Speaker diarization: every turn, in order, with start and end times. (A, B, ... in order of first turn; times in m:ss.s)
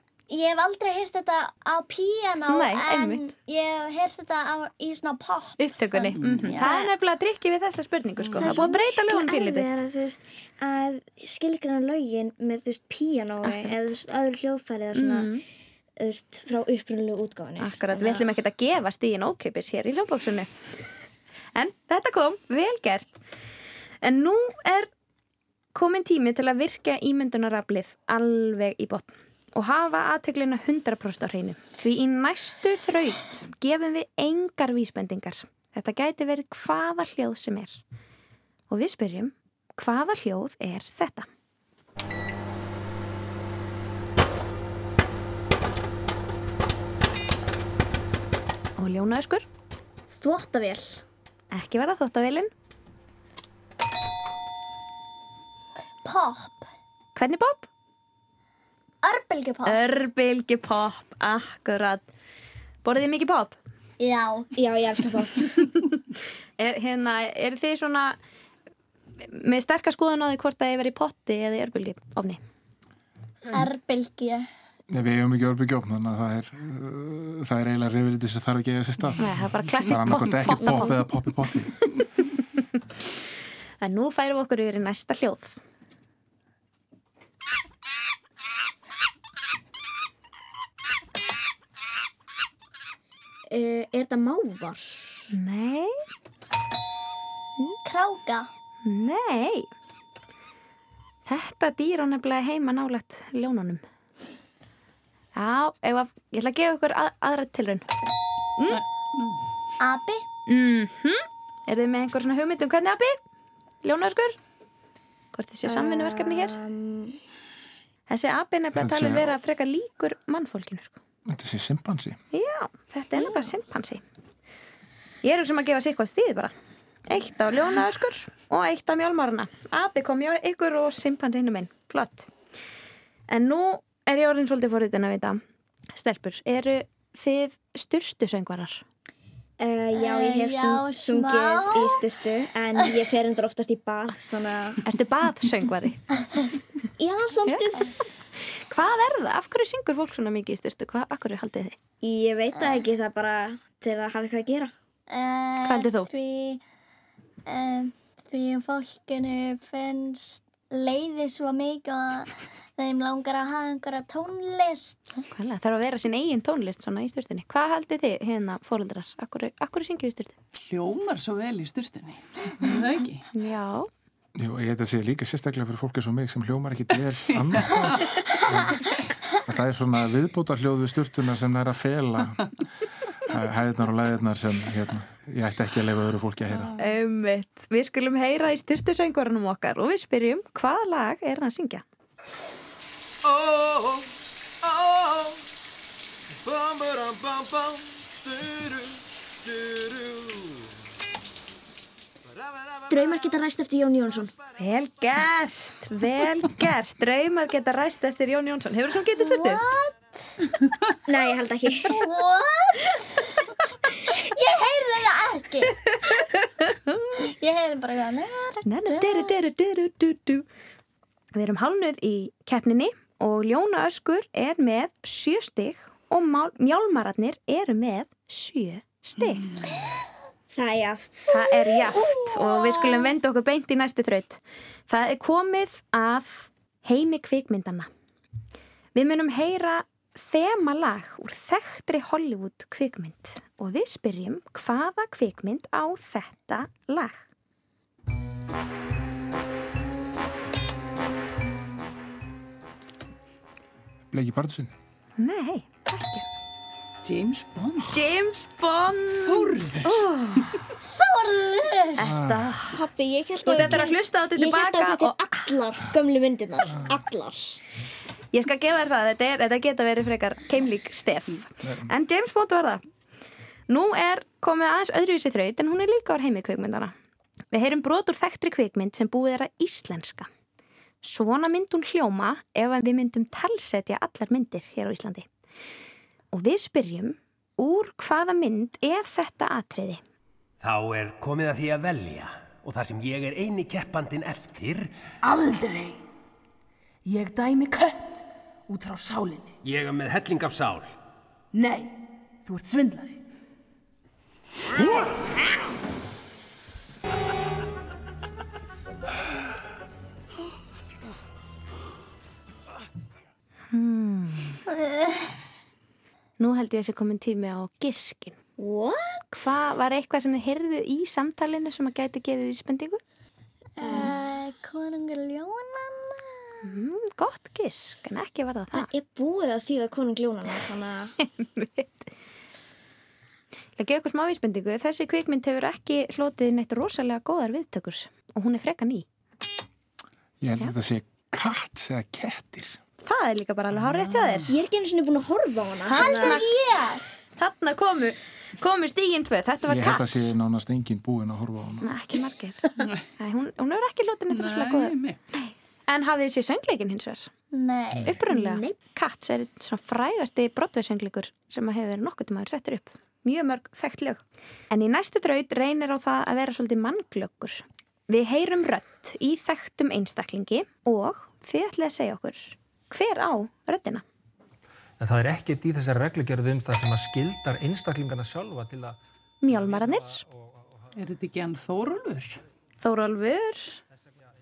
0:00.3-0:06.9 A
0:02.5-0:03.3 B
0:05.6-0:09.7 B
0:06.1-0:06.6 C
0:08.2-0:08.6 C
0:08.4-0:15.3 D
0:13.4-0:13.8 B
0:14.9-0:15.4 B
0:16.0-0:18.3 D
0:17.6-0:20.5 B
0:21.5-0:23.2 B
0:24.0-0:24.9 B
0:25.7-0:37.8 B
0:38.7-0:41.3 B
0:48.8-0:49.5 B
0:50.1-0:51.0 D
0:51.5-0:52.5 B
0:56.0-0:56.6 A
0:57.1-0:57.7 B
0:59.0-0:59.8 A
0:59.6-1:02.0 B
1:02.8-1:03.6 B
1:04.0-1:04.5 A
1:04.5-1:05.8 D
1:06.6-1:08.2 B
1:09.2-1:12.4 B
1:13.5-1:14.5 A
1:14.9-1:21.9 E
1:19.2-1:21.0 B
1:23.8-1:25.6 B
1:33.5-1:35.3 D
1:35.3-1:35.9 B
1:37.8-1:38.5 A
1:38.8-1:39.7 B
1:41.2-1:43.8 B
1:45.4-1:47.9 B
1:48.6-1:48.8 B
1:48.7-1:49.4 C
1:49.8-1:50.2 A
1:50.5-1:53.2 B
1:53.8-1:54.4 B
1:55.3-1:56.6 B
1:55.6-1:57.2 D
1:58.1-2:01.0 B
1:58.8-1:59.3 E
2:01.3-2:02.2 E
2:02.3-2:04.0 B
2:05.2-2:06.5 B
2:07.1-2:12.3 B
2:13.3-2:15.4 B
2:15.9-2:18.8 B
2:19.6-2:24.8 D
2:20.0-2:22.0 A
2:24.8-2:26.1 B
2:27.0-2:27.9 D
2:28.6-2:31.8 B
2:32.0-2:34.7 D
2:35.1-2:36.6 A
2:35.6-2:36.1 B
2:37.5-2:45.2 A
2:45.3-2:50.4 B
2:50.5-2:53.2 C
2:53.3-2:53.9 B
2:54.4-3:02.5 E
3:03.2-3:06.8 E
3:06.8-3:11.8 B
3:13.2-3:14.1 F
3:14.6-3:15.4 F
3:16.5-3:20.6 F
3:22.9-3:24.3 D
3:24.6-3:29.6 B
3:29.2-3:30.0 A
3:31.0-3:32.0 D
3:32.0-3:33.3 A
3:34.1-3:36.4 A
3:37.1-3:39.4 A
3:38.6-3:40.4 B
3:41.4-3:49.6 B
3:50.5-3:51.8 D
3:51.3-3:57.9 B
3:59.0-4:07.2 B
4:14.1-4:14.7 E
4:15.2-4:16.2 B
4:17.0-4:18.2 C
4:17.9-4:20.6 B
4:19.2-4:20.1 C
4:20.8-4:22.1 A
4:22.0-4:22.8 B
4:22.0-4:22.6 E
4:22.7-4:27.6 D
4:23.4-4:25.2 B
4:28.3-4:32.8 B
4:31.6-4:31.9 E
4:33.7-4:36.9 B
4:37.5-4:40.3 B
4:41.0-4:45.3 B
4:46.3-4:50.0 B
4:50.6-4:54.9 G
4:55.2-4:56.0 H
4:57.0-4:59.6 H
4:59.6-5:00.9 G
5:01.5-5:03.2 H
5:13.7-5:14.6 B
5:16.4-5:18.4 B
5:18.6-5:19.1 D
5:19.3-5:23.0 B
5:23.8-5:26.6 A
5:23.8-5:24.2 D
5:26.6-5:28.9 B
5:28.7-5:31.2 D
5:31.3-5:32.1 B
5:33.8-5:39.0 B
5:40.4-5:42.8 E
5:43.0-5:44.5 B
5:43.8-5:44.4 C
5:44.5-5:46.4 D
5:45.9-5:46.5 B
5:45.9-5:47.0 A
5:47.4-5:50.3 B
5:49.6-5:51.9 E
5:51.8-5:54.9 B
5:54.3-5:55.2 C
5:55.9-5:57.3 B
5:57.5-5:58.7 A
5:58.0-6:14.0 B
6:15.0-6:19.9 I
6:19.4-6:20.2 B
6:20.9-6:22.4 C
6:22.8-6:23.8 B